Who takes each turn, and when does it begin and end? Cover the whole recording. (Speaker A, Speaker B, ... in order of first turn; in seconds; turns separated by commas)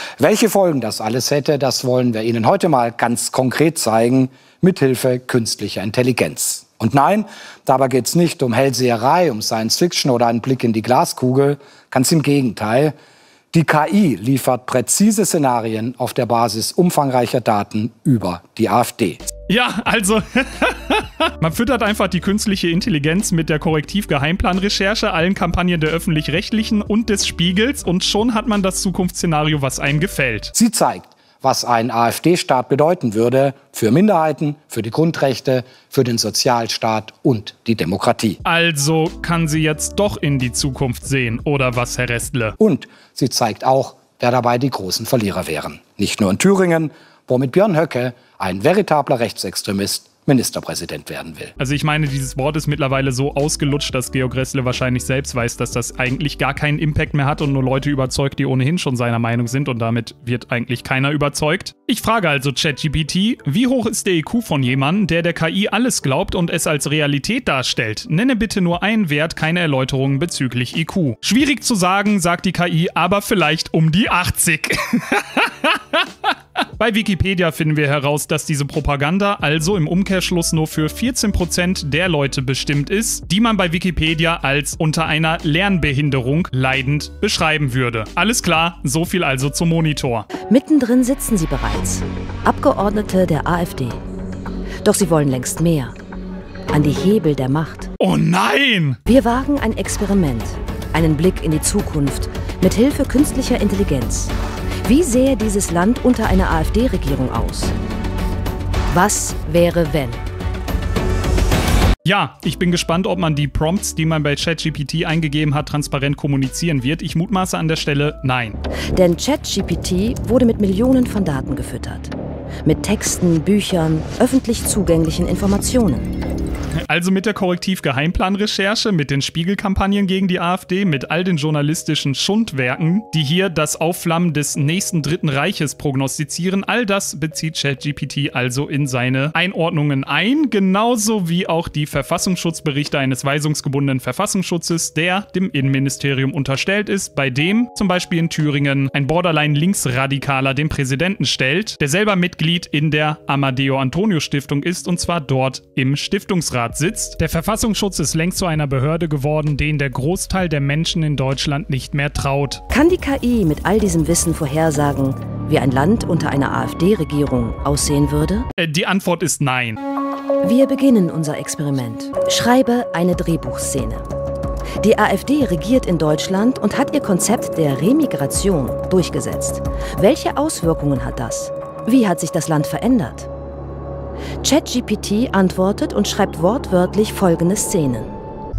Speaker A: 0.2-12.9, Speaker A: 13.5-19.3, Speaker B: 19.5-30.5, Speaker A: 30.5-38.4, Speaker B: 38.5-42.6, Speaker A: 42.6-51.5, Speaker B: 51.6-90.3, Speaker C: 90.4-94.0, Speaker C: 94.8-96.0, Speaker C: 96.7-97.9, Speaker B: 98.0-99.0, Speaker C: 99.1-104.3, Speaker C: 104.8-107.7, Speaker C: 108.9-110.2, Speaker B: 112.0-118.6, Speaker C: 118.9-122.1, Speaker C: 122.6-126.1, Speaker B: 126.9-162.6, Speaker C: 162.7-168.5, Speaker B: 168.6-169.8, Speaker C: 170.4-174.1, Speaker C: 174.8-183.3, Speaker C: 184.4-188.1